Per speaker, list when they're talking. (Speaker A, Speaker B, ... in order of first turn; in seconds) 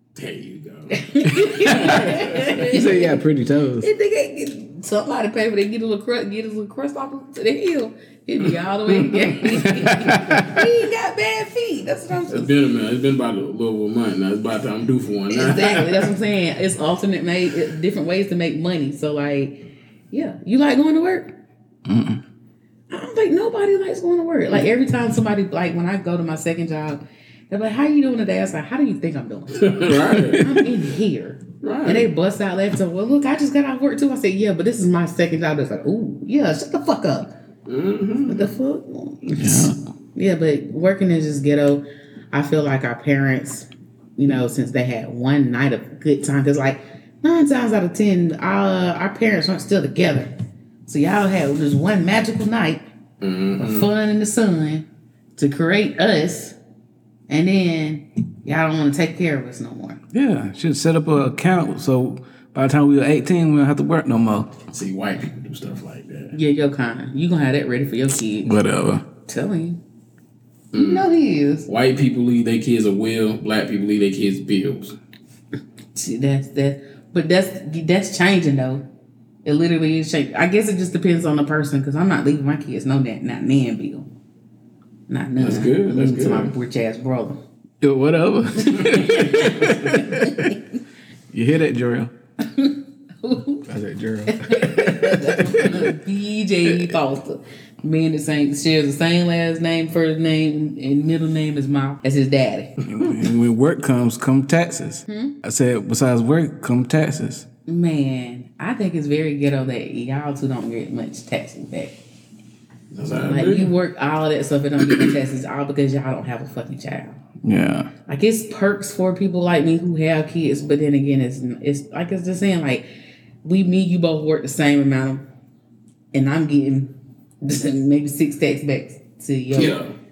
Speaker A: 0.1-2.6, 8.4-10.4, 12.3-16.1, 29.5-30.5, 31.6-32.1, 37.6-38.5, 53.2-53.9, 64.7-66.3, 70.7-71.1, 71.7-75.0, 85.4-86.5, 112.9-113.7, 129.5-129.9
Speaker B: 0.9-3.2, 3.8-12.5, 15.3-21.4, 22.9-37.3, 38.2-50.3, 50.9-52.8, 53.5-56.5, 57.3-60.0, 66.3-68.5, 69.2-69.8, 70.7-71.7, 75.9-78.8, 79.4-84.1, 85.1-87.4, 88.6-90.6, 92.4-93.7, 94.3-102.8, 105.1-105.4, 107.7-111.9, 113.2-117.2, 118.1-122.9, 123.4-125.2, 126.1-129.8
Speaker C: 1.7-3.9, 10.1-10.4, 21.9-22.2, 29.9-30.4, 39.4-39.8, 60.1-64.6, 68.4-69.0, 87.8-90.6, 91.3-92.1, 93.7-95.9, 96.7-96.9, 102.8-107.5, 117.4-117.9